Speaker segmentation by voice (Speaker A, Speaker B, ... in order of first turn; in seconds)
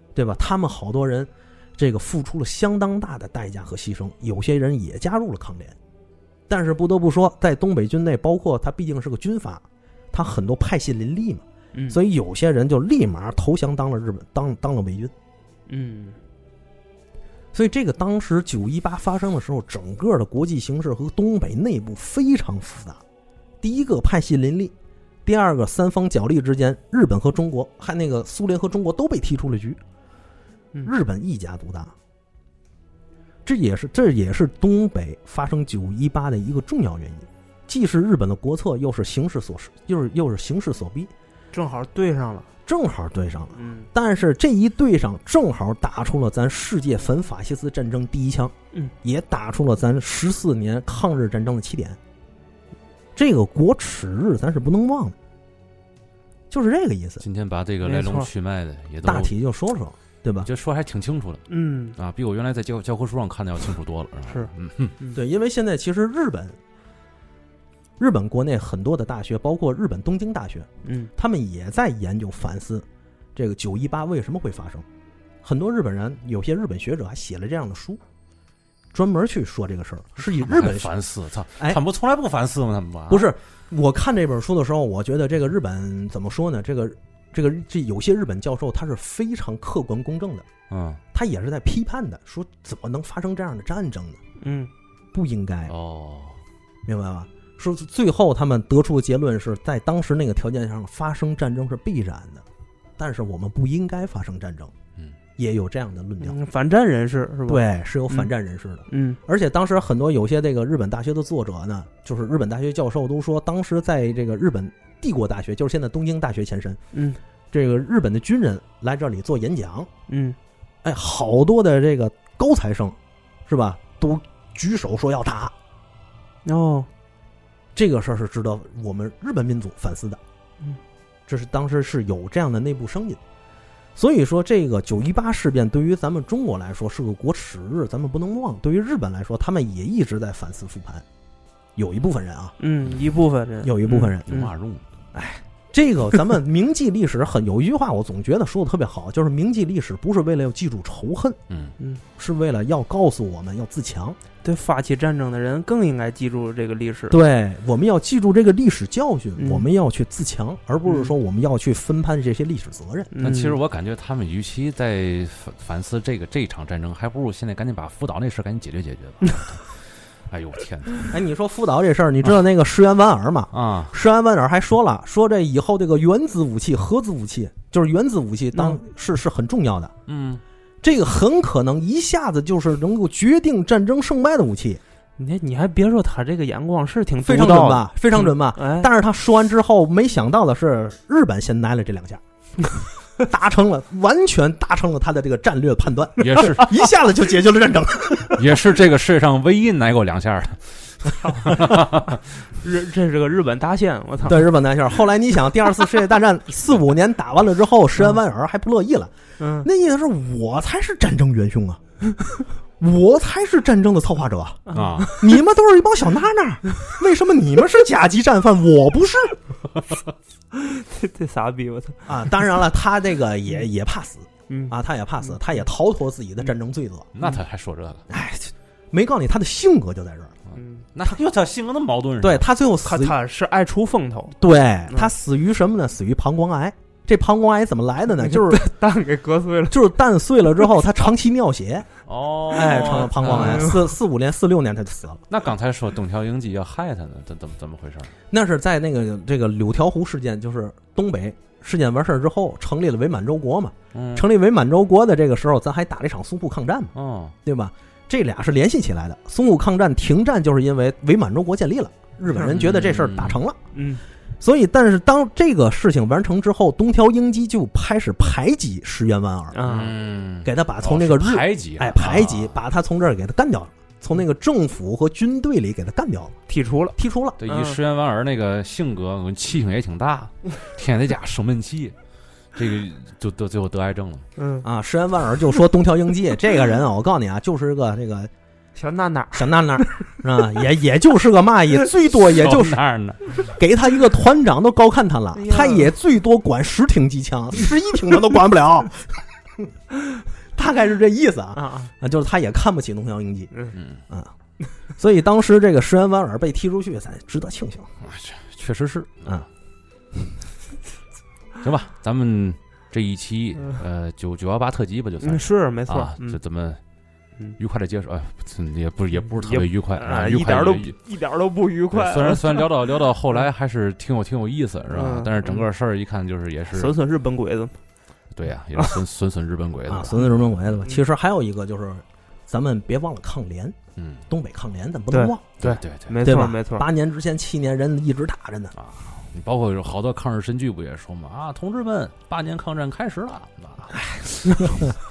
Speaker A: 0.1-5.8, 6.5-15.1, 17.5-23.0, 23.6-24.7, 25.2-29.8, 30.8-31.9, 33.5-41.1, 42.6-52.0, 53.1-55.1, 56.5-57.2, 59.0-60.5, 65.1-66.6, 68.0-74.8, 75.4-78.0, 78.9-80.9, 83.1-90.5, 91.1-94.2, 95.1-95.7, 96.8-102.4, 103.0-104.7, 105.4-106.4, 107.5-116.8, 117.5-119.9, 120.8-125.5, 127.7-130.2, 131.3-133.2, 133.9-141.0, 141.8-142.6, 143.6-144.3, 145.1-151.4, 152.2-154.2, 157.1-163.1, 171.1-179.9, 180.8-184.8, 187.2-192.2, 193.2-198.6, 204.2-211.8, 212.8-219.4, 222.1-227.1, 228.1-230.3, 232.2-233.1, 234.4-238.7, 239.7-241.9, 242.5-245.2, 248.3-256.9, 257.4-263.6, 264.4-269.6, 270.4-276.4, 277.0-277.4, 284.6-288.3, 289.3-292.8, 293.4-299.1, 300.6-304.3, 304.9-307.9, 329.9-333.8, 334.3-335.4, 336.2-338.7
Speaker B: 11.7-12.0, 15.7-16.2, 41.5-42.5, 43.5-43.9, 57.8-58.3, 61.5-62.0, 64.3-65.2, 70.8-71.1, 94.4-94.7, 106.2-108.3, 108.9-109.2, 116.9-117.2, 120.1-120.4, 126.4-126.9, 142.6-144.5, 154.4-157.2, 159.4-159.7, 160.9-161.1, 163.1-163.6, 178.5-178.8, 185.2-188.9, 201.2-201.9, 202.5-204.5, 209.4-209.7, 214.7-215.3, 220.5-222.4, 224.5-224.8, 230.5-230.9, 232.8-234.3, 238.1-239.8, 242.6-243.9, 263.7-264.0, 269.5-269.9, 276.5-277.8, 284.4-284.6, 288.7-289.8, 295.3-295.9, 301.5-301.9, 315.2-316.4, 319.4-322.7, 324.9-325.7, 326.7-327.8, 328.7-329.0, 335.1-336.9
Speaker C: 57.2-59.3, 60.4-61.4, 62.0-65.0, 80.2-83.3, 90.7-91.0, 95.7-96.4, 144.3-144.8, 151.5-151.8, 163.2-171.1, 173.5-173.9, 180.1-180.4, 196.2-196.7, 198.3-202.2, 214.7-215.2, 227.1-228.0, 230.9-232.4, 242.0-243.7, 245.3-248.1, 253.9-254.2, 256.9-257.4, 262.5-263.4, 269.6-272.6, 277.4-281.9, 282.5-284.2, 292.2-293.4, 303.8-304.0, 308.0-309.4, 311.6-316.8, 317.6-320.9, 321.9-326.9, 328.3-330.3, 333.9-334.2, 335.6-336.3, 338.8-344.8